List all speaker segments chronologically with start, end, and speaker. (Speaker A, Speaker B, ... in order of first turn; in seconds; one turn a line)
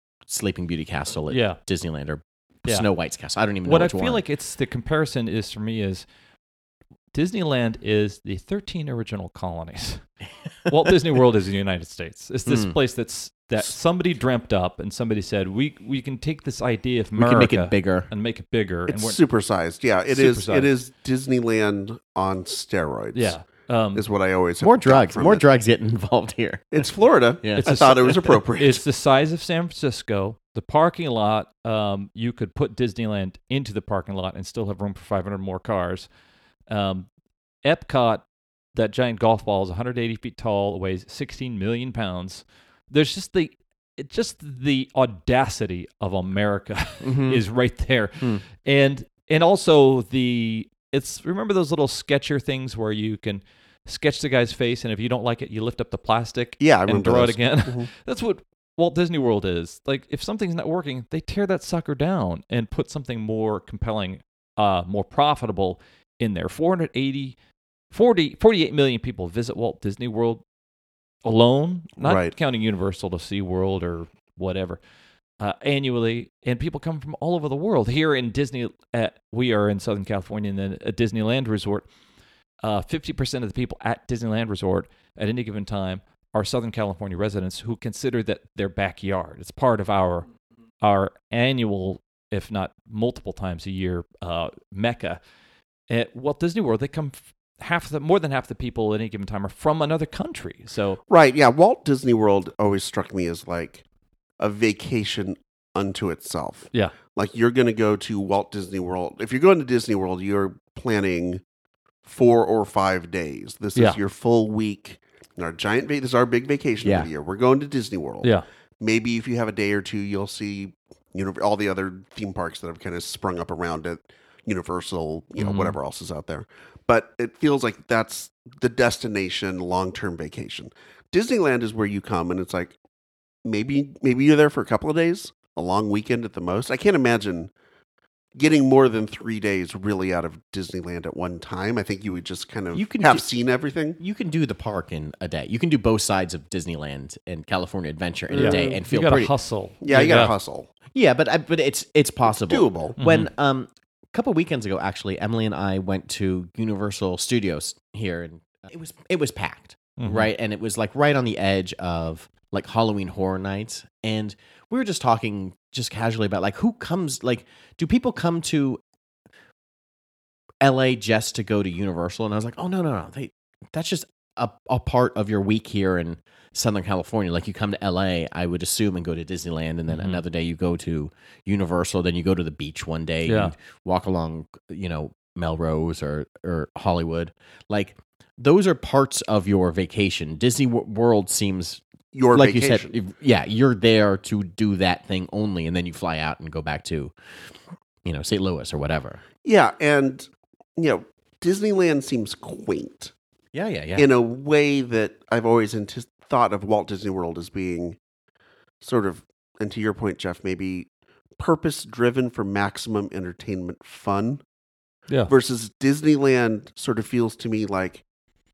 Speaker A: 0.3-4.2
Speaker B: 1.3-1.6
Speaker B: 3.6-6.1
Speaker B: 7.1-10.0
Speaker B: 10.7-19.2
Speaker A: 12.5-12.8
Speaker A: 17.2-18.1
Speaker C: 18.9-23.4
Speaker B: 20.1-20.7
Speaker B: 23.1-24.0
Speaker C: 23.9-25.4
Speaker A: 24.6-26.9
Speaker C: 26.7-28.8
Speaker A: 27.4-27.8
Speaker B: 27.6-36.1
Speaker B: 36.7-37.1
Speaker B: 37.6-67.4
Speaker A: 47.0-47.4
Speaker C: 56.6-57.9
Speaker B: 67.9-70.4
Speaker B: 71.2-74.8
Speaker C: 72.0-72.3
Speaker B: 75.4-81.9
Speaker B: 82.6-90.3
Speaker B: 90.8-95.2
Speaker B: 95.9-101.0
Speaker C: 101.1-103.8
Speaker C: 104.4-111.4
Speaker C: 112.0-132.8
Speaker A: 116.8-117.1
Speaker B: 125.4-125.8
Speaker C: 133.4-137.5
Speaker C: 138.4-144.0
Speaker A: 142.7-143.3
Speaker A: 144.0-149.3
Speaker C: 148.3-148.8
Speaker B: 148.4-150.3
Speaker C: 149.8-150.7
Speaker A: 150.9-168.8
Speaker C: 152.3-153.0
Speaker B: 153.0-153.3
Speaker B: 160.0-160.3
Speaker A: 170.6-197.1
Speaker B: 179.9-180.2
Speaker B: 183.3-183.5
Speaker C: 192.1-192.9
Speaker A: 198.1-199.2
Speaker C: 199.4-203.1
Speaker A: 203.5-204.1
Speaker C: 204.0-208.0
Speaker C: 208.8-214.4
Speaker C: 215.3-218.0